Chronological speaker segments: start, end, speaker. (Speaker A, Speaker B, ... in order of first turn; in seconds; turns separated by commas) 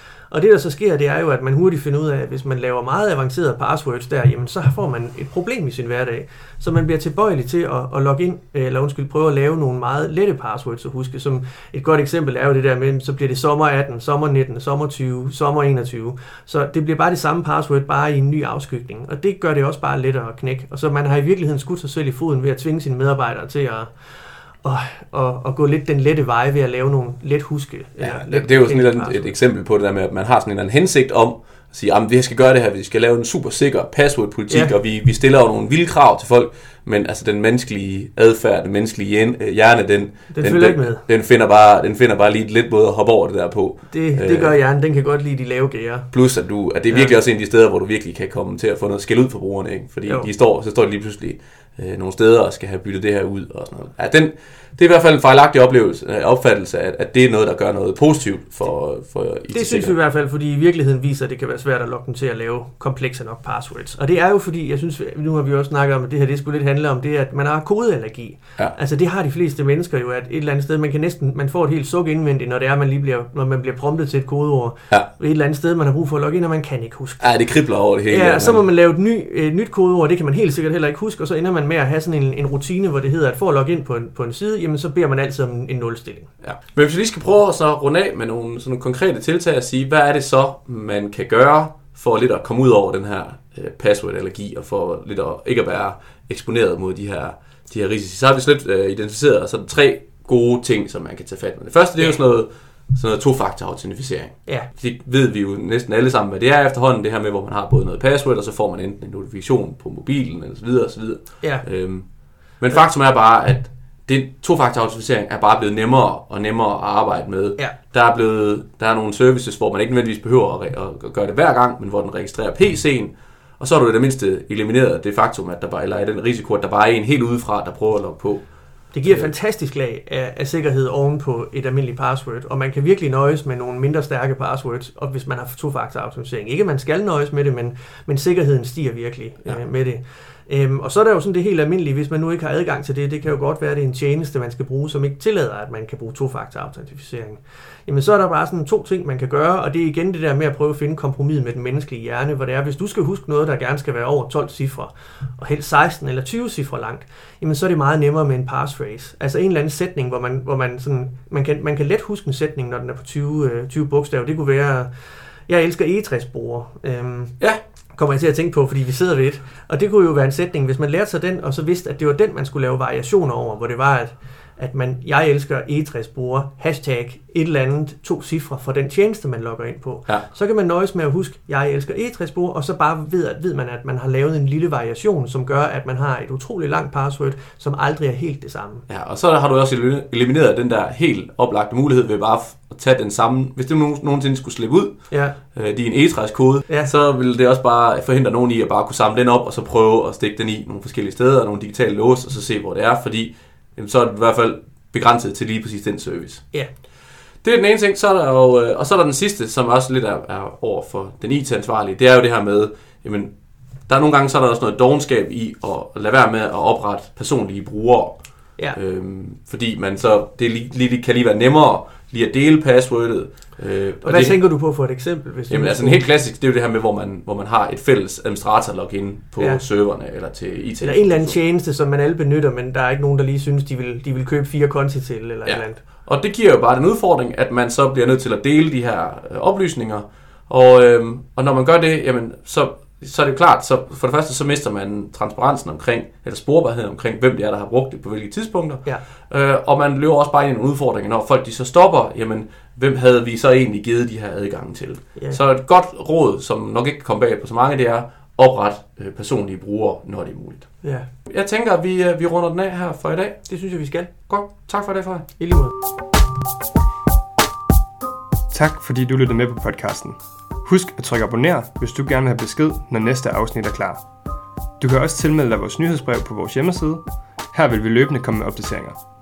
Speaker A: 0.3-29.4, Speaker B: 28.0-44.6, Speaker A: 34.5-34.7, Speaker A: 40.3-41.0, Speaker A: 43.9-46.1, Speaker B: 46.1-59.9, Speaker A: 46.9-47.2, Speaker A: 59.5-77.4, Speaker B: 77.2-78.7, Speaker A: 78.1-86.3, Speaker B: 86.4-129.3, Speaker A: 128.9-164.9, Speaker A: 165.5-167.4, Speaker A: 167.9-188.9, Speaker B: 188.9-206.5, Speaker A: 195.1-195.4, Speaker A: 196.7-196.9, Speaker B: 207.4-213.3, Speaker B: 213.9-224.6, Speaker A: 224.0-226.1, Speaker B: 225.5-231.4, Speaker A: 229.4-229.6, Speaker A: 230.8-235.8, Speaker B: 235.4-263.4, Speaker A: 260.8-261.1, Speaker A: 263.5-264.1, Speaker B: 264.3-265.2, Speaker A: 265.4-265.7, Speaker C: 268.5-274.0, Speaker C: 274.8-279.0